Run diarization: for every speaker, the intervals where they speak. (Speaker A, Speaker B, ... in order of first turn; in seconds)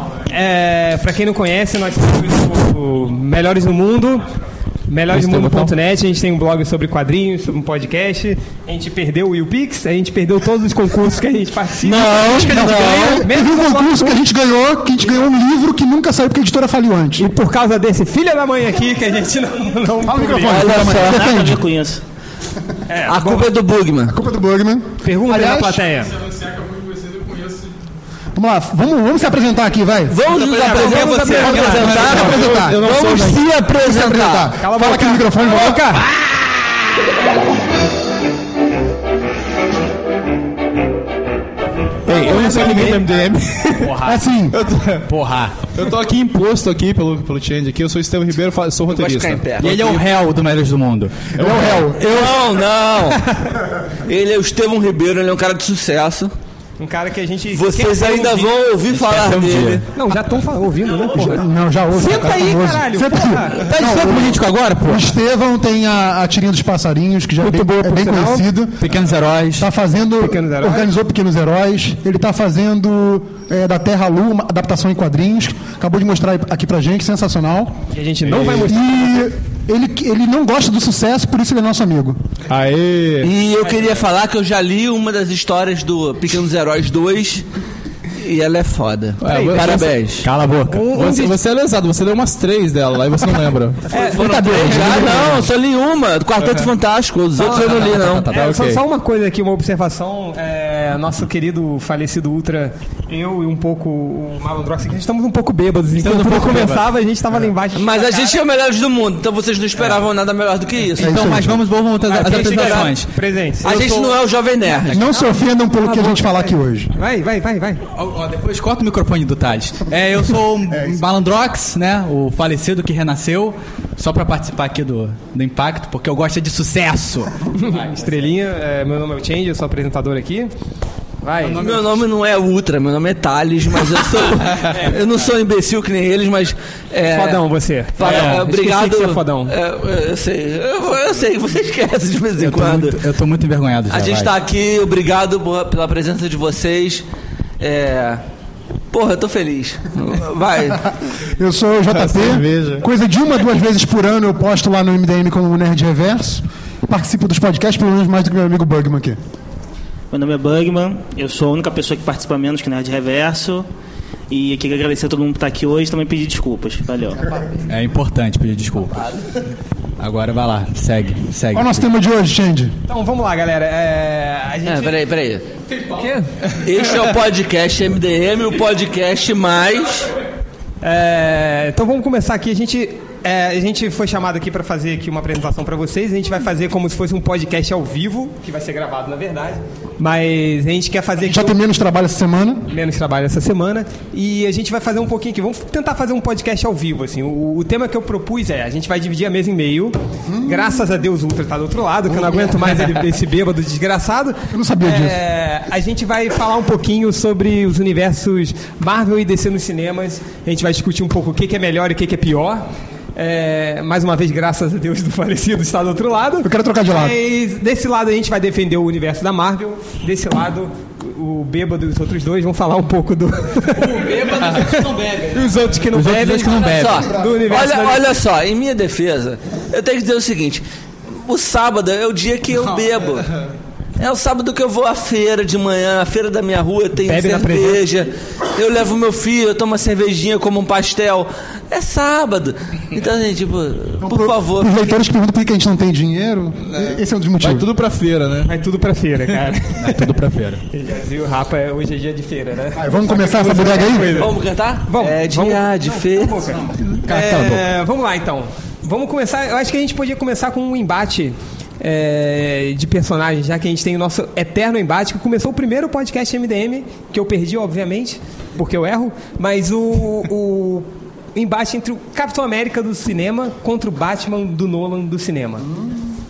Speaker A: 0.3-4.2, 4.9-14.2, 17.2-20.7, 22.9-23.5, 25.0-26.1, 30.3-32.3, 34.6-36.0, 56.8-58.5, 60.0-63.6, 67.4-68.4, 70.2-70.9, 77.9-79.1, 83.6-83.9, 89.2-89.6, 90.7-91.3, 93.9-95.4, 97.4-108.4, 112.0-114.2, 115.8-117.8, 127.6-130.5, 131.2-131.6, 134.7-135.0, 137.0-139.5, 172.9-175.0, 176.0-176.2, 180.8-191.6, 192.7-212.6, 213.2-228.0, 236.9-237.8, 248.4-250.1, 250.7-254.3, 254.9-275.6
Speaker B: 5.1-5.7, 42.1-45.1, 45.7-49.5, 51.4-51.9, 82.5-83.3, 89.2-89.9, 90.9-93.8, 96.4-96.7, 98.3-98.8, 152.0-152.8, 247.4-248.5
Speaker C: 11.8-13.2, 20.5-21.4, 23.1-24.1, 30.1-34.5, 48.9-50.0, 52.0-53.2, 54.0-56.3, 57.5-59.8, 83.2-87.5, 88.2-90.2, 93.9-98.3, 107.8-111.3, 112.5-112.9, 113.6-115.0, 131.6-137.4, 137.9-143.0, 143.9-147.0, 147.6-148.2, 148.9-150.9, 174.7-175.4, 176.6-180.1, 226.7-230.6, 231.2-233.3, 234.0-244.7, 254.2-256.4
Speaker D: 11.9-13.2, 30.6-33.4, 45.1-45.5, 49.6-51.3, 59.0-59.8, 63.6-65.0, 68.8-69.7, 90.2-90.9, 94.8-95.3, 97.9-98.3, 106.0-106.8, 111.0-113.1, 118.0-127.9, 142.4-144.3, 167.7-169.0, 170.0-171.8, 223.8-227.1, 249.8-250.6, 257.0-257.6
Speaker E: 12.4-17.3, 20.0-21.6, 24.1-25.8, 28.3-30.2, 31.4-36.0, 42.1-43.0, 44.0-44.5, 51.4-52.3, 61.1-68.9, 69.6-77.8, 78.6-82.2, 111.0-111.6, 114.9-116.9, 151.4-159.2, 171.5-172.7, 191.2-192.6, 200.3-200.8, 204.5-205.2, 216.4-217.2, 244.0-247.7, 252.8-254.3
Speaker F: 20.9-22.0, 160.1-163.7, 164.3-167.2